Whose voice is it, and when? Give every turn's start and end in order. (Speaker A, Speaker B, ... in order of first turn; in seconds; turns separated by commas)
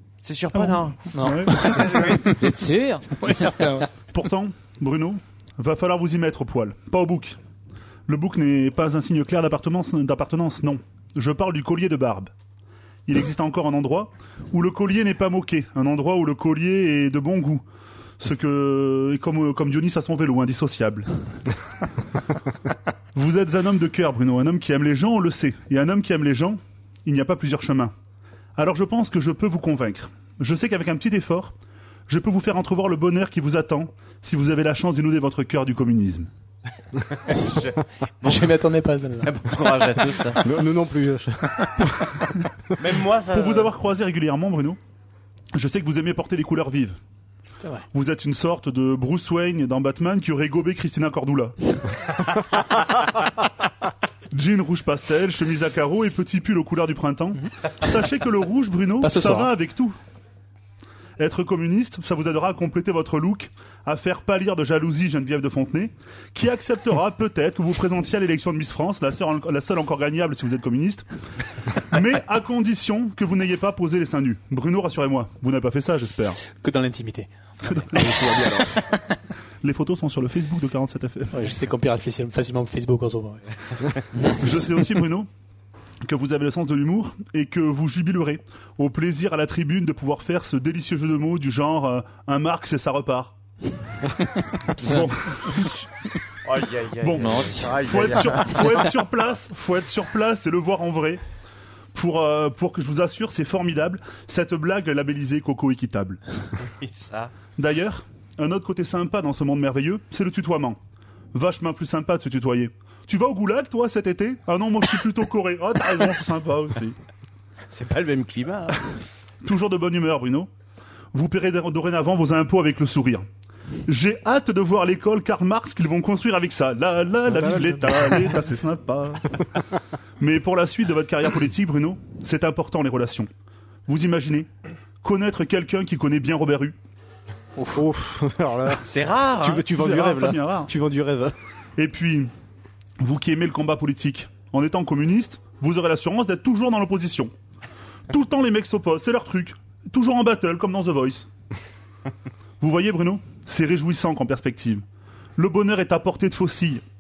Speaker A: 0.2-1.1, Speaker B: 0.5-2.2, Speaker C: 1.1-2.4, Speaker D: 2.4-3.7, Speaker C: 3.2-3.9, Speaker B: 4.1-7.4, Speaker B: 8.1-12.3, Speaker B: 13.1-17.6, Speaker B: 18.2-21.1, Speaker B: 23.1-27.9, Speaker B: 28.6-31.5, Speaker B: 32.1-36.3, Speaker A: 37.3-38.5, Speaker C: 38.2-40.0, Speaker A: 39.2-40.4, Speaker E: 40.4-42.1, Speaker A: 42.8-43.7, Speaker B: 43.3-44.8, Speaker B: 45.5-47.0, Speaker C: 47.6-47.9, Speaker B: 47.9-51.8, Speaker B: 54.3-60.0, Speaker C: 59.0-59.5, Speaker B: 61.2-71.0, Speaker B: 71.9-76.4, Speaker C: 76.5-78.8, Speaker B: 77.7-78.7, Speaker B: 79.6-81.4, Speaker C: 81.3-84.0, Speaker B: 84.4-85.3, Speaker B: 86.0-93.3, Speaker B: 94.2-95.7, Speaker D: 94.8-95.1, Speaker A: 96.5-98.7, Speaker B: 97.0-101.2, Speaker D: 97.2-97.8, Speaker B: 101.9-106.2, Speaker A: 106.8-107.3, Speaker B: 107.6-110.8, Speaker B: 111.3-117.0, Speaker A: 117.7-118.8, Speaker B: 119.4-120.5, Speaker B: 121.1-123.3, Speaker B: 123.9-129.5, Speaker E: 127.3-128.3, Speaker B: 130.2-133.3, Speaker B: 133.9-134.5, Speaker B: 135.0-136.8, Speaker E: 137.7-138.9, Speaker A: 138.8-139.7, Speaker E: 139.4-141.3, Speaker B: 139.7-140.7, Speaker B: 141.8-142.3, Speaker B: 143.0-147.3, Speaker B: 148.1-151.3, Speaker B: 152.6-154.8, Speaker B: 155.4-156.8